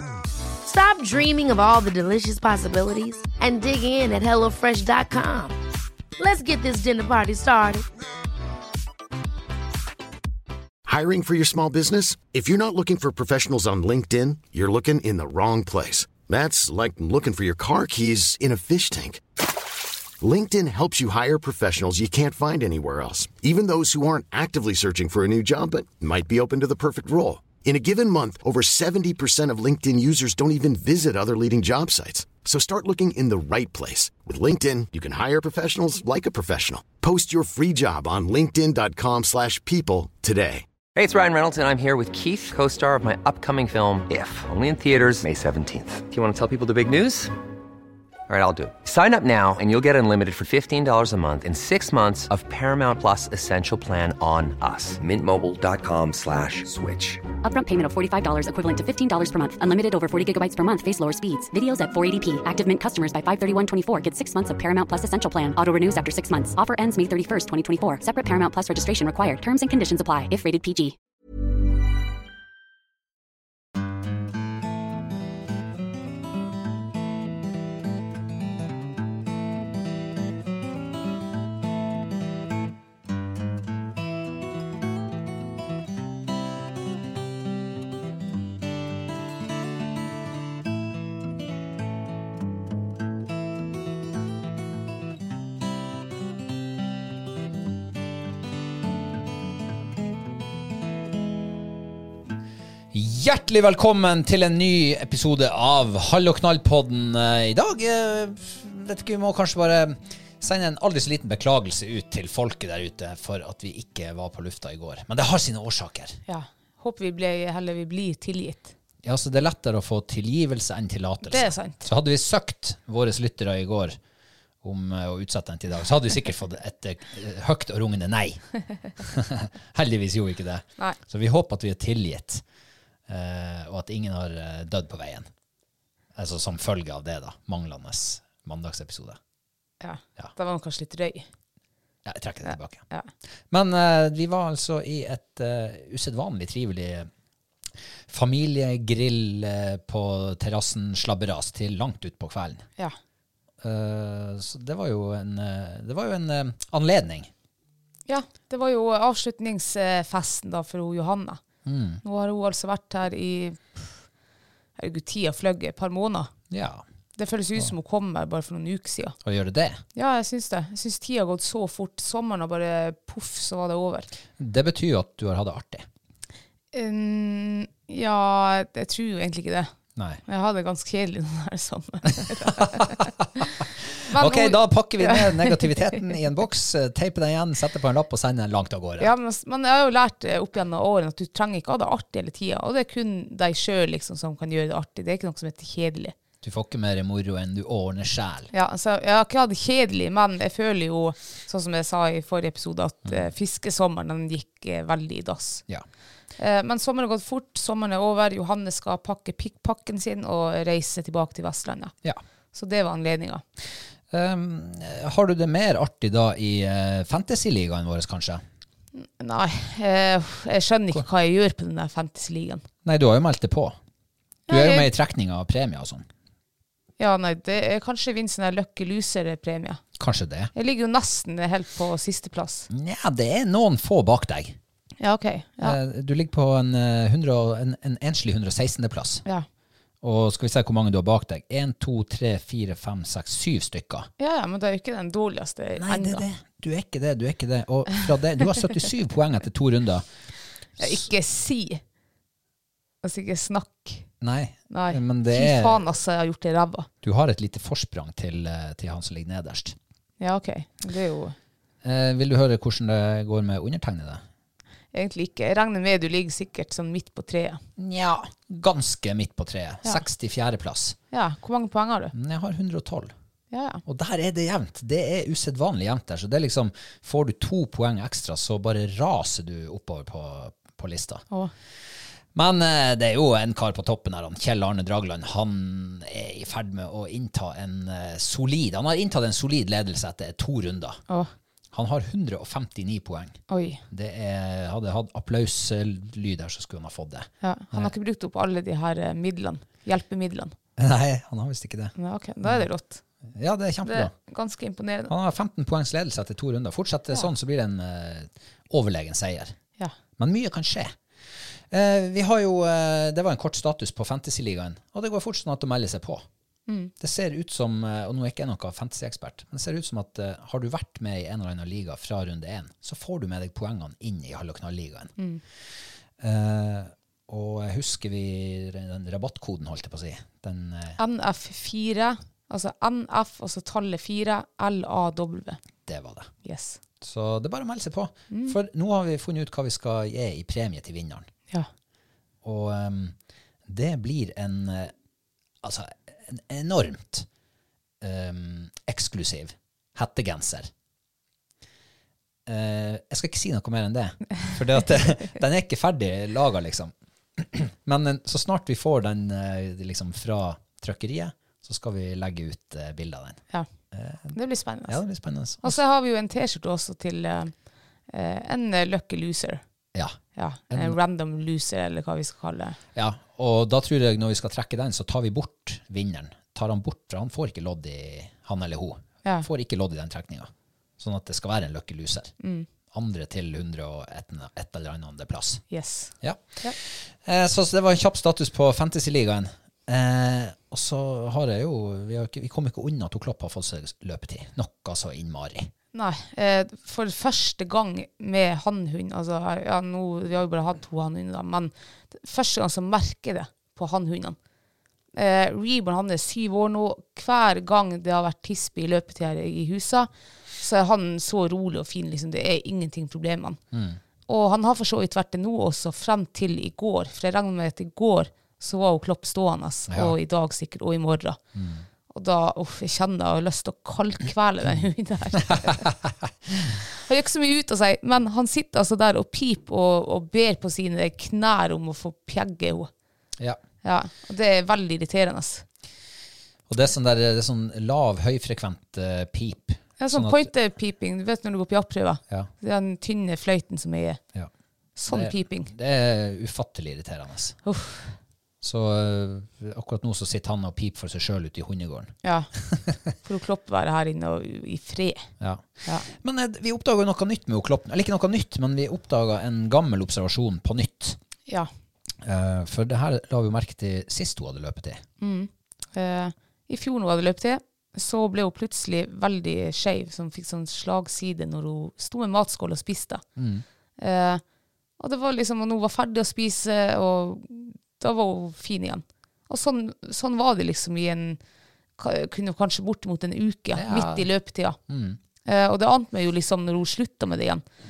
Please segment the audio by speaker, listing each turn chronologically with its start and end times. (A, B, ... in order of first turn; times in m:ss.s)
0:00.6-0:05.6 A
0:06.2-0:07.8 A
0:10.8-0:19.2 B
0:20.2-0:40.6 B
0:40.9-0:47.3 C
0:48.3-0:57.2 C
0:57.4-1:11.0 D
1:42.9-1:56.2 E
1:56.3-1:58.7 F
1:59.0-2:04.0 E
2:01.2-2:01.9 F
2:04.6-2:08.4 E
2:09.0-2:12.4 E
2:13.1-2:15.3 E
2:16.1-2:19.2 E
2:19.8-2:21.3 F
2:22.0-2:22.8 E
2:22.4-2:23.1 F
2:23.5-2:27.1 E
2:28.1-2:32.6 E
2:33.6-2:37.3 E
2:38.1-2:41.4 F
2:41.6-2:42.0 E
2:42.0-2:44.0 F
2:44.8-2:46.3 F
2:46.5-2:46.8 E
2:47.2-2:49.2 F
2:49.2-2:49.8 E
2:49.9-2:54.1 F
2:54.4-2:55.9 E
2:56.7-2:59.7 F
3:00.0-3:00.2 E
3:00.2-3:03.1 F
3:02.5-3:09.1 E
3:04.1-3:06.0 F
3:09.0-3:16.1 F
3:16.4-3:18.5 E
3:18.5-3:25.6 F
3:26.4-3:31.9 F
3:32.5-3:33.4 F
3:34.1-3:38.4 E
3:38.9-3:42.6 F
3:42.8-3:43.8 E
3:44.5-3:44.9 F
3:44.5-3:46.0 E
3:47.0-3:49.8 F
3:50.0-3:50.5 E
3:50.5-3:52.7 F
3:52.7-3:54.6 E
3:55.0-3:55.8 F
3:55.6-3:59.2 E
4:00.0-4:04.1 E
4:04.2-4:06.2 F
4:05.8-4:10.1 E
4:10.8-4:11.8 F
4:13.0-4:14.0 F
4:14.2-4:15.8 E
4:14.7-4:16.9 F
4:17.0-4:19.8 E
4:20.2-4:21.4 F
4:21.8-4:24.2 E
4:24.9-4:27.6 F
4:27.8-4:31.0 E
4:31.1-4:32.1 F
4:32.1-4:33.1 E
4:33.5-4:33.8 F
4:33.8-4:41.2 E
4:42.3-4:51.0 E
4:51.7-4:57.9 E
4:53.5-4:53.8 F
4:57.4-5:00.5 F
5:00.8-5:02.6 E
5:02.0-5:03.0 F
5:03.3-5:04.1 E
5:03.8-5:05.1 F
5:05.1-5:09.5 E
5:10.2-5:11.0 E
5:11.7-5:16.2 E
5:16.7-5:16.9 F
5:17.0-5:25.1 E
5:26.2-5:31.0 E
5:31.0-5:35.6 F
5:35.8-5:36.3 E
5:36.4-5:36.8 F
5:37.0-5:41.3 E
5:42.4-5:43.1 E
5:43.6-5:44.9 E
5:45.6-5:47.3 E
5:48.0-5:50.7 E
5:52.4-6:03.4 E
6:03.9-6:05.8 E
6:04.3-6:05.0 F
6:05.6-6:07.5 F
6:08.1-6:09.6 F
6:09.9-6:10.2 E
6:10.4-6:12.8 F
6:10.7-6:11.0 E
6:12.9-6:22.3 E
6:22.4-6:22.7 F
6:22.9-6:25.6 E
6:25.7-6:26.8 F
6:26.2-6:35.7 E
6:35.9-6:44.4 F
6:45.1-6:50.1 F
6:50.6-6:53.6 F
6:53.7-6:54.0 E
6:54.3-7:01.4 F
6:59.9-7:00.1 E
7:01.5-7:01.8 E
7:02.1-7:05.9 F
7:05.6-7:06.1 E
7:06.9-7:12.9 F
7:13.8-7:15.6 F
7:16.7-7:20.5 E
7:20.0-7:24.2 F
7:25.0-7:25.7 F
7:25.1-7:27.6 E
7:27.6-7:28.2 F
7:28.6-7:33.0 E
7:32.2-7:32.5 F
7:33.2-7:35.3 F
7:35.4-7:41.2 E
7:42.2-7:45.0 E
7:45.2-7:53.2 F
7:53.4-7:53.6 E
7:54.0-7:54.4 F
7:55.0-8:01.4 F
8:02.0-8:04.8 F
8:03.7-8:04.3 E
8:04.9-8:05.2 E
8:05.4-8:07.6 F